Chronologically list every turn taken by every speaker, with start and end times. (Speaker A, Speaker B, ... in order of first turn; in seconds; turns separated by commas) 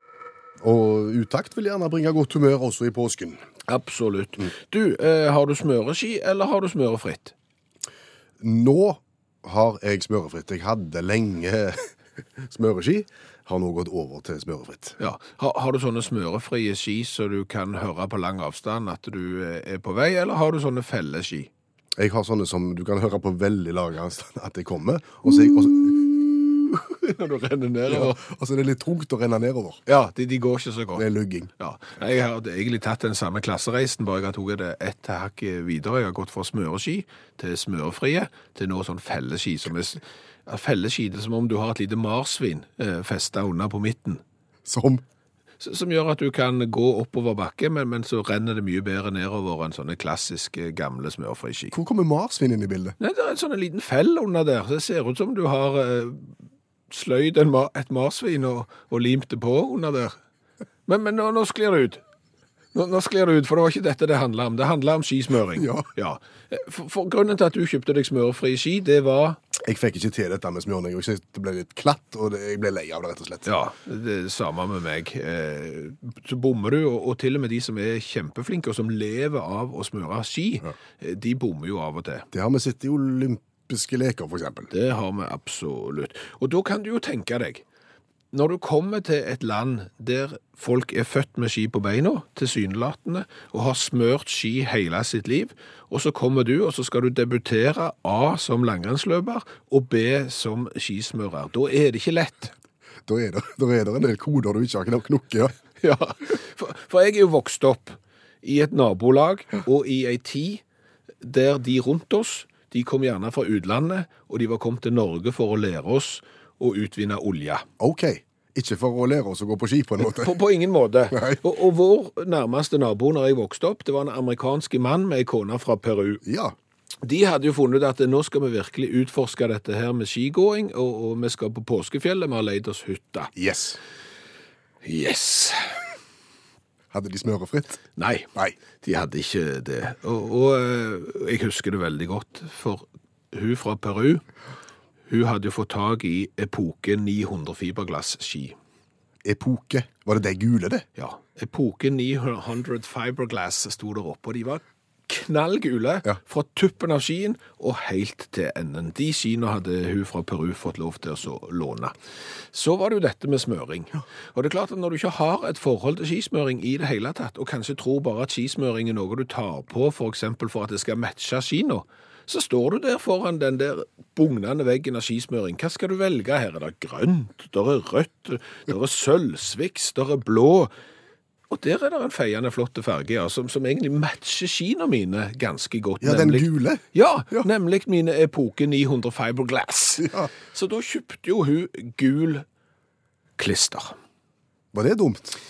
Speaker A: 0.6-3.4, Speaker B: 3.7-7.3, Speaker A: 8.4-11.9, Speaker A: 12.4-15.0, Speaker B: 15.0-21.5, Speaker A: 22.0-26.1, Speaker B: 25.3-28.2, Speaker A: 27.9-29.8, Speaker B: 29.9-31.1, Speaker A: 30.9-31.5, Speaker B: 31.6-44.2, Speaker A: 44.7-45.0, Speaker B: 45.6-51.7, Speaker A: 51.7-52.9, Speaker B: 53.0-56.3, Speaker B: 56.9-60.1, Speaker B: 60.9-62.0, Speaker B: 62.7-69.4, Speaker A: 65.6-65.8, Speaker A: 69.6-73.5, Speaker B: 73.5-82.3, Speaker A: 82.3-84.7, Speaker B: 84.7-87.6, Speaker B: 88.3-102.5, Speaker A: 103.0-105.5, Speaker B: 105.8-110.6, Speaker B: 111.2-117.7, Speaker A: 117.8-120.3, Speaker B: 120.0-126.2, Speaker A: 121.1-121.4, Speaker A: 126.2-126.5, Speaker B: 127.0-133.3, Speaker A: 133.3-133.8, Speaker B: 134.8-135.8, Speaker A: 136.9-137.8, Speaker B: 138.0-138.3, Speaker B: 138.8-144.2, Speaker B: 145.1-148.5, Speaker A: 149.2-150.8, Speaker B: 151.0-161.9, Speaker B: 162.5-180.7, Speaker B: 181.5-192.4, Speaker A: 186.0-187.4, Speaker A: 190.0-190.3, Speaker B: 193.4-193.9, Speaker A: 194.7-195.4